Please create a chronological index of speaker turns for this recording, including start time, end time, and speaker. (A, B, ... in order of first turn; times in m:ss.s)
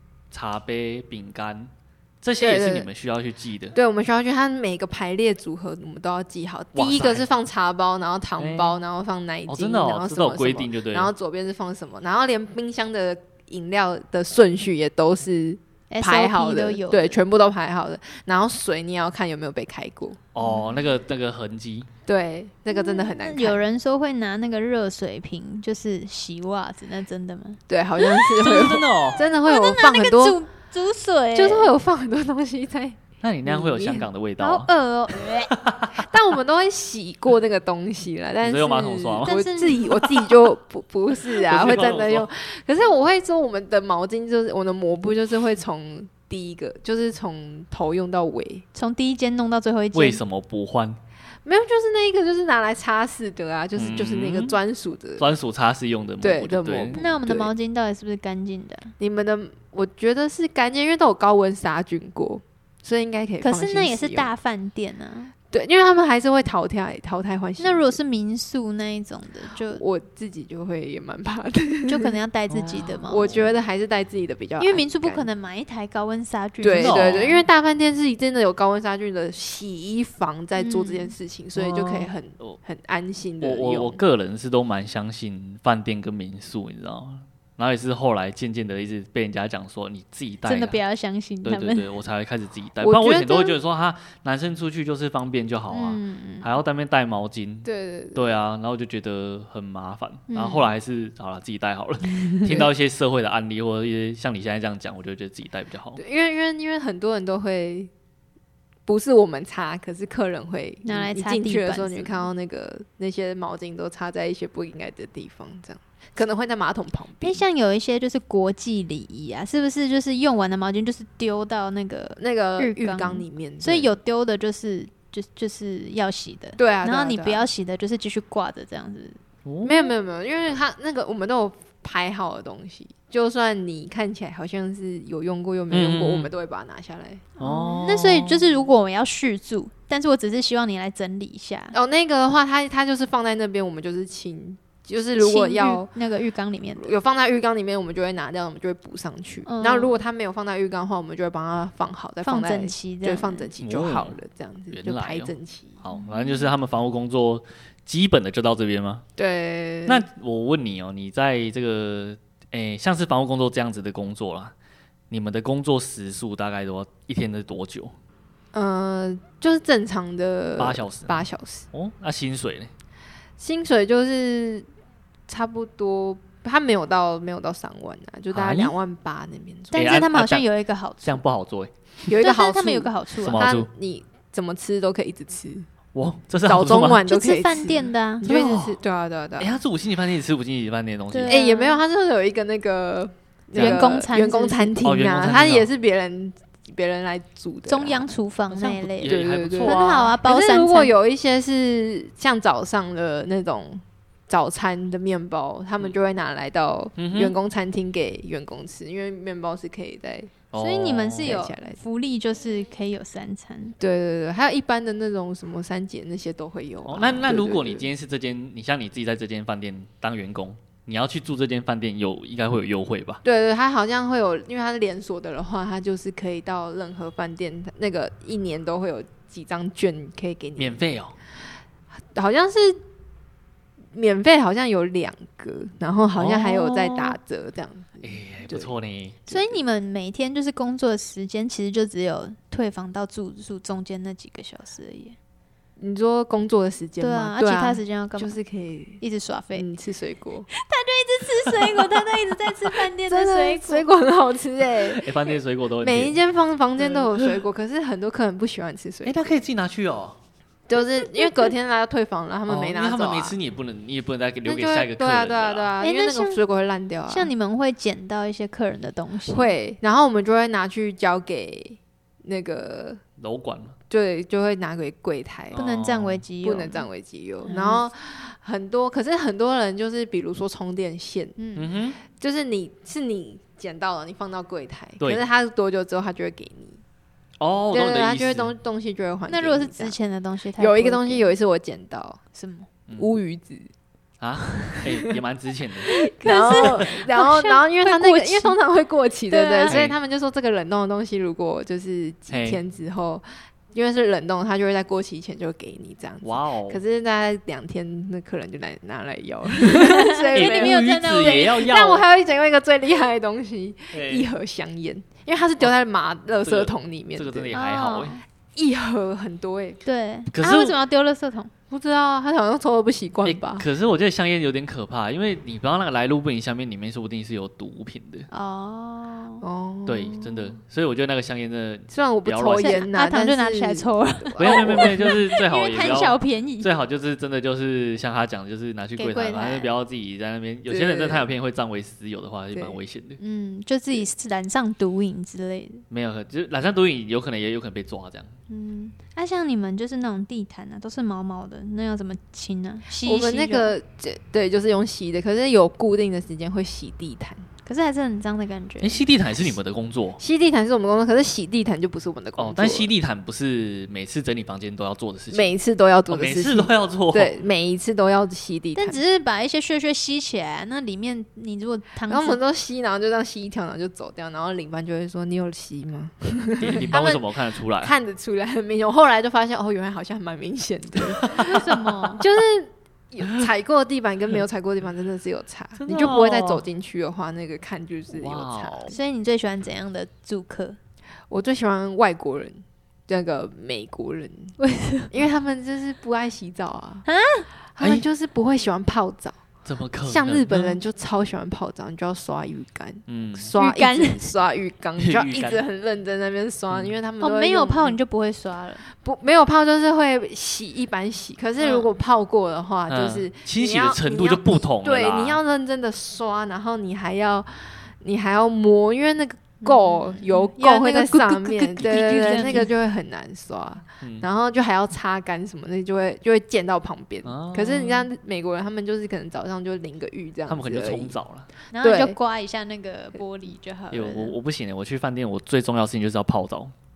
0:00.3-0:03.8 A
0:02.4-0:02.9 B
0:03.7-0:20.2 B
0:06.8-0:07.3 A
0:08.4-0:08.8 A
0:09.5-0:11.1 A
0:15.9-0:17.2 C
0:20.4-0:21.9 A
0:20.4-0:20.7 C
0:22.1-0:23.6 B
0:22.7-0:28.7 C
0:27.7-0:30.4 B
0:28.4-0:29.2 A
0:29.5-0:31.7 C
0:31.4-0:34.1 B
0:33.2-0:34.7 A
0:34.4-0:35.5 C
0:35.2-0:36.0 A
0:35.9-0:48.6 B
0:38.4-0:39.4 A
0:39.3-0:40.0 C
0:41.4-0:42.3 A
0:48.7-0:50.2 C
0:49.9-0:51.0 A
0:51.4-0:55.3 B
0:53.8-0:54.6 A
0:55.2-0:57.0 A
0:56.2-0:57.5 B
0:57.0-0:58.9 C
0:59.0-1:04.3 B
1:03.4-1:05.3 C
1:05.5-1:08.0 B
1:07.6-1:09.8 C
1:09.8-1:12.1 B
1:11.9-1:13.3 C
1:12.5-1:13.5 A
1:13.1-1:15.3 B
1:14.6-1:17.3 C
1:16.6-1:24.0 B
1:16.8-1:17.4 A
1:20.6-1:21.1 C
1:21.6-1:22.6 A
1:23.4-1:30.8 A
1:30.4-1:31.9 C
1:31.4-1:46.0 A
1:32.8-1:33.6 B
1:35.7-1:36.5 C
1:37.6-1:38.3 B
1:40.3-1:40.7 C
1:46.0-1:47.9 B
1:48.9-1:57.4 B
1:50.8-1:52.3 C
1:57.2-2:09.9 C
2:02.2-2:03.9 B
2:06.6-2:07.5 B
2:09.5-2:09.7 A
2:09.6-2:17.4 B
2:15.7-2:16.3 A
2:17.4-2:18.5 A
2:17.4-2:21.8 C
2:21.7-2:25.9 B
2:25.2-2:26.9 C
2:26.8-2:35.8 B
2:29.5-2:30.0 C
2:32.2-2:33.5 C
2:33.6-2:34.2 A
2:34.7-2:39.0 A
2:35.9-2:36.5 C
2:39.2-2:40.0 B
2:39.9-2:44.5 A
2:45.1-2:47.9 A
2:48.5-2:51.7 B
2:50.6-2:52.7 A
2:53.4-2:54.7 B
2:55.3-3:00.0 B
2:58.3-2:58.8 A
2:59.7-3:01.2 C
2:59.7-3:00.4 A
3:01.0-3:01.7 A
3:02.1-3:05.7 B
3:02.2-3:03.4 C
3:03.2-3:03.7 A
3:06.0-3:07.0 A
3:06.4-3:09.6 B
3:07.0-3:08.2 C
3:08.2-3:08.8 A
3:09.4-3:11.4 A
3:11.1-3:11.8 C
3:11.3-3:18.1 B
3:13.5-3:13.9 A
3:13.6-3:14.8 C
3:14.8-3:15.7 A
3:17.7-3:20.9 C
3:18.6-3:20.1 A
3:19.0-3:30.4 B
3:27.0-3:27.4 A
3:30.5-3:31.4 A
3:30.6-3:33.8 C
3:31.2-3:31.8 B
3:33.8-3:37.9 B
3:36.9-3:43.2 A
3:43.2-3:50.9 B
3:50.6-3:51.2 A
3:52.1-3:52.8 B
3:53.9-3:58.7 B
3:56.2-3:57.1 A
3:58.0-3:59.2 A
3:59.3-3:59.6 B
3:59.3-4:05.2 C
4:05.8-4:09.0 B
4:07.0-4:08.4 C
4:09.0-4:09.7 C
4:09.5-4:10.5 B
4:10.5-4:13.9 C
4:13.0-4:15.1 B
4:15.0-4:16.2 A
4:15.8-4:19.2 B
4:16.8-4:17.4 A
4:19.0-4:20.2 A
4:20.7-4:23.4 B
4:22.5-4:25.7 A
4:24.4-4:27.3 B
4:25.8-4:26.4 C
4:27.1-4:29.5 C
4:29.3-4:33.0 B
4:33.2-4:33.8 A
4:33.9-4:35.6 B
4:35.5-4:36.2 A
4:35.6-4:36.9 C
4:36.4-4:41.4 B
4:37.5-4:37.8 C
4:41.4-4:41.7 C
4:41.6-4:42.0 A
4:42.1-4:46.8 B
4:47.4-4:48.5 A
4:47.7-4:50.0 B
4:49.3-4:51.3 C
4:50.6-4:52.2 B
4:52.3-4:52.7 C
4:53.0-4:53.7 B
4:54.2-4:55.9 A
4:54.8-4:55.2 B
4:55.8-4:58.6 C
4:56.0-5:17.5 B
4:56.5-4:56.8 A
4:59.3-4:59.8 C
4:59.7-5:00.0 A
5:02.3-5:02.6 A
5:06.2-5:06.8 A
5:09.6-5:11.6 C
5:10.3-5:12.0 A
5:13.9-5:14.3 A
5:16.4-5:18.2 A
5:17.5-5:18.2 C
5:18.6-5:19.8 B
5:19.8-5:21.5 C
5:20.3-5:20.8 A
5:21.7-5:23.7 B
5:23.2-5:28.3 A
5:28.3-5:29.4 C
5:29.4-5:30.6 B
5:29.9-5:32.8 A
5:31.9-5:35.2 B
5:32.6-5:36.7 C
5:34.4-5:43.2 A
5:39.0-5:39.7 C
5:40.7-5:41.3 B
5:42.5-5:42.8 B
5:43.2-5:45.8 C
5:45.9-5:48.3 A
5:48.5-5:53.7 C
5:53.0-5:57.5 B
5:57.6-5:59.0 C
5:58.8-6:00.2 A
6:00.2-6:02.9 B
6:02.4-6:05.5 A
6:05.3-6:09.0 B
6:06.1-6:07.4 A
6:08.8-6:12.4 C
6:12.1-6:21.6 B
6:16.6-6:17.9 A
6:21.2-6:21.6 A
6:21.4-6:22.2 C
6:22.2-6:29.0 B
6:25.8-6:26.6 A
6:28.1-6:28.9 A
6:28.9-6:30.8 C
6:31.3-6:34.6 B
6:34.6-6:35.1 C
6:35.1-6:37.1 B
6:37.1-6:37.5 C
6:37.8-6:39.4 B
6:39.6-6:40.8 A
6:40.0-6:48.0 B
6:43.1-6:43.6 A
6:43.6-6:44.3 C
6:45.0-6:45.6 A
6:47.2-6:48.8 C
6:48.9-7:11.2 B
6:51.6-6:51.9 C
6:52.9-6:55.4 A
6:59.6-7:02.7 C
7:07.2-7:08.1 A
7:10.5-7:11.5 A
7:11.7-7:14.4 C
7:11.8-7:12.2 B
7:13.9-7:16.7 A